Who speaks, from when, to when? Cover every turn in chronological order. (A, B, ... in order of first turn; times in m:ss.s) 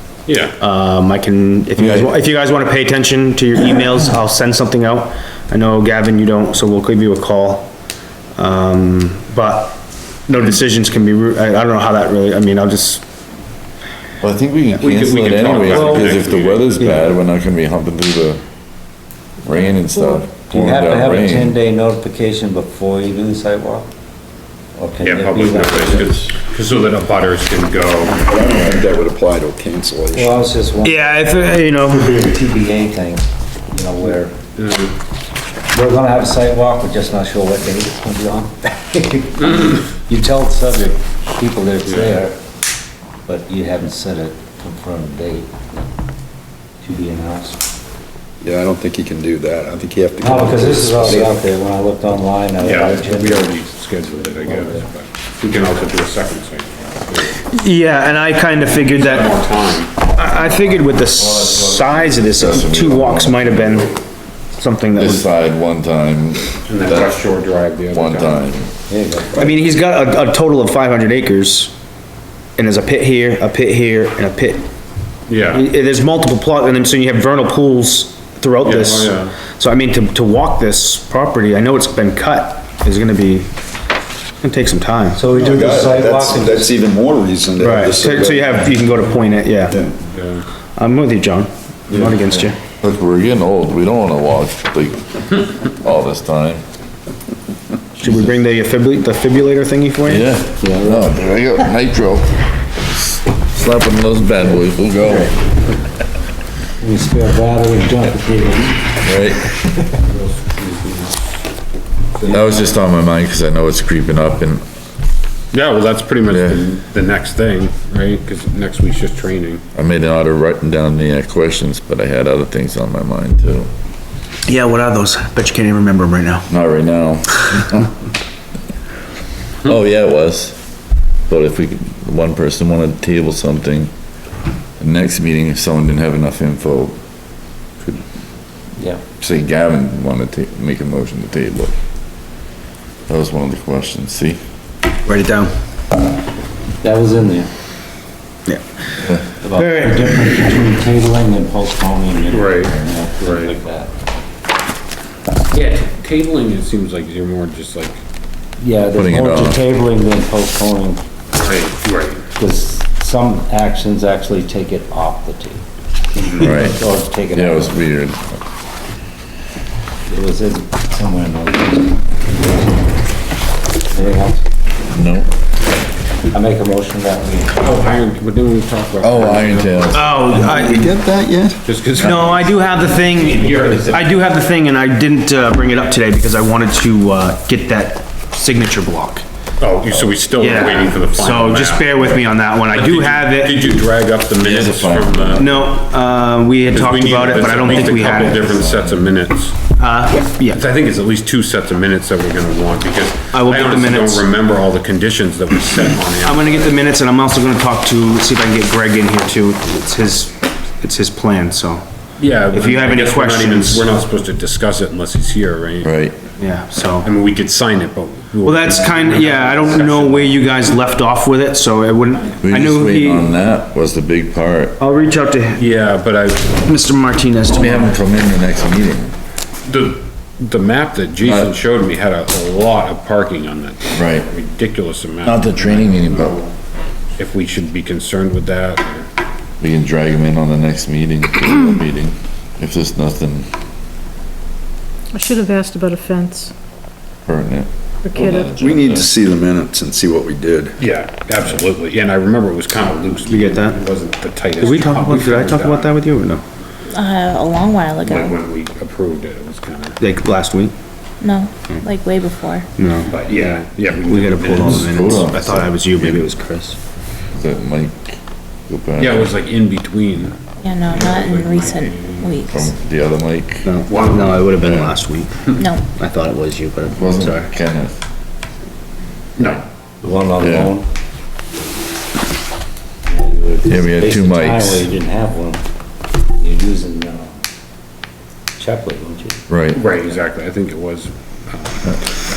0:00.2-0:00.5 A
0:00.6-0:07.7 B
0:01.8-0:02.1 C
0:08.4-0:13.0 B
0:14.2-0:18.4 C
0:14.8-0:16.9 A
0:15.7-0:16.1 D
0:16.8-0:17.0 B
0:19.4-0:21.6 C
0:20.4-0:23.9 D
0:24.8-0:26.3 D
0:25.0-0:28.2 A
0:28.1-0:30.5 E
0:30.1-0:31.0 D
0:30.8-0:32.2 B
0:32.0-0:34.4 D
0:34.6-0:34.9 A
0:35.7-0:42.4 D
0:41.8-0:42.2 A
0:43.2-0:45.9 D
0:46.8-0:47.6 D
0:48.4-0:51.4 E
0:50.2-0:53.5 D
0:52.6-0:57.4 A
0:54.1-0:54.8 D
0:57.5-0:59.4 B
0:58.7-0:59.9 A
1:00.1-1:03.9 B
1:01.2-1:03.9 C
1:04.5-1:05.2 B
1:05.0-1:07.2 C
1:06.7-1:08.4 A
1:07.9-1:08.7 C
1:08.9-1:09.4 D
1:09.3-1:11.7 B
1:12.6-1:14.7 B
1:15.3-1:15.6 A
1:15.5-1:23.5 B
1:18.6-1:19.3 A
1:24.4-1:25.2 B
1:25.1-1:26.7 D
1:25.3-1:28.7 E
1:27.6-1:29.8 B
1:29.7-1:29.9 E
1:30.0-1:30.4 A
1:30.8-1:32.6 B
1:32.8-1:36.6 C
1:38.0-1:40.3 B
1:40.0-1:45.4 C
1:40.6-1:41.1 D
1:46.8-1:49.1 D
1:49.0-1:49.5 C
1:50.0-1:51.2 A
1:52.2-1:52.8 A
1:52.3-1:54.6 C
1:55.5-1:59.6 A
1:56.2-1:56.6 C
1:59.7-2:03.7 C
2:04.4-2:06.5 B
2:06.5-2:07.9 C
2:09.6-2:10.6 C
2:11.3-2:13.9 C
2:14.8-2:17.0 C
2:19.2-2:21.7 C
2:23.1-2:24.4 C
2:25.0-2:25.5 B
2:26.8-2:27.5 D
2:29.4-2:33.9 D
2:29.6-2:30.1 B
2:32.3-2:33.6 A
2:35.5-2:38.0 A
2:38.6-2:41.0 D
2:38.9-2:39.6 C
2:41.4-2:42.2 A
2:42.4-2:47.8 D
2:46.4-2:48.4 C
2:50.1-2:53.0 D
2:53.9-2:54.4 D
2:54.9-2:55.3 C
2:56.3-2:57.9 D
2:57.6-3:00.1 A
2:59.0-3:00.2 C
2:59.9-3:00.9 B
3:00.3-3:01.6 E
3:01.6-3:04.1 A
3:02.0-3:09.2 B
3:09.6-3:15.5 A
3:10.4-3:13.7 B
3:14.4-3:15.7 C
3:15.4-3:18.5 B
3:16.7-3:19.6 A
3:17.1-3:19.1 C
3:19.8-3:20.6 B
3:20.4-3:26.8 A
3:23.3-3:24.3 B
3:26.2-3:31.8 B
3:32.2-3:35.9 A
3:32.4-3:33.9 B
3:35.8-3:36.2 C
3:36.4-3:37.1 B
3:37.0-3:40.6 A
3:38.4-3:43.3 B
3:42.4-3:44.8 C
3:44.8-3:45.6 B
3:45.6-3:46.5 A
3:46.6-3:48.0 B
3:47.5-3:49.1 C
3:49.6-3:56.5 A
3:51.2-3:51.5 C
3:54.0-3:54.2 C
3:55.2-3:56.4 C
3:57.2-3:59.1 A
3:59.6-4:03.5 C
4:05.1-4:06.5 F
4:07.2-4:09.1 C
4:08.0-4:08.5 F
4:08.6-4:10.8 E
4:10.8-4:15.9 A
4:13.3-4:13.8 B
4:14.6-4:16.4 B
4:16.9-4:18.4 G
4:18.0-4:20.0 A
4:20.0-4:20.7 B
4:21.2-4:22.7 G
4:22.8-4:26.8 B
4:23.1-4:25.3 A
4:24.6-4:26.2 C
4:27.3-4:29.4 C
4:29.0-4:32.4 A
4:30.6-4:32.6 G
4:32.5-4:33.7 C
4:33.6-4:37.5 B
4:33.9-4:34.4 A
4:34.6-4:34.9 C
4:35.6-4:35.8 G
4:37.0-4:38.0 C
4:39.4-4:39.6 A
4:40.0-4:40.9 D
4:40.4-4:40.7 C
4:43.1-4:45.6 D
4:43.6-4:44.8 C
4:46.4-4:47.4 D
4:48.6-4:49.4 D
4:49.5-4:49.8 C
4:49.7-4:52.0 A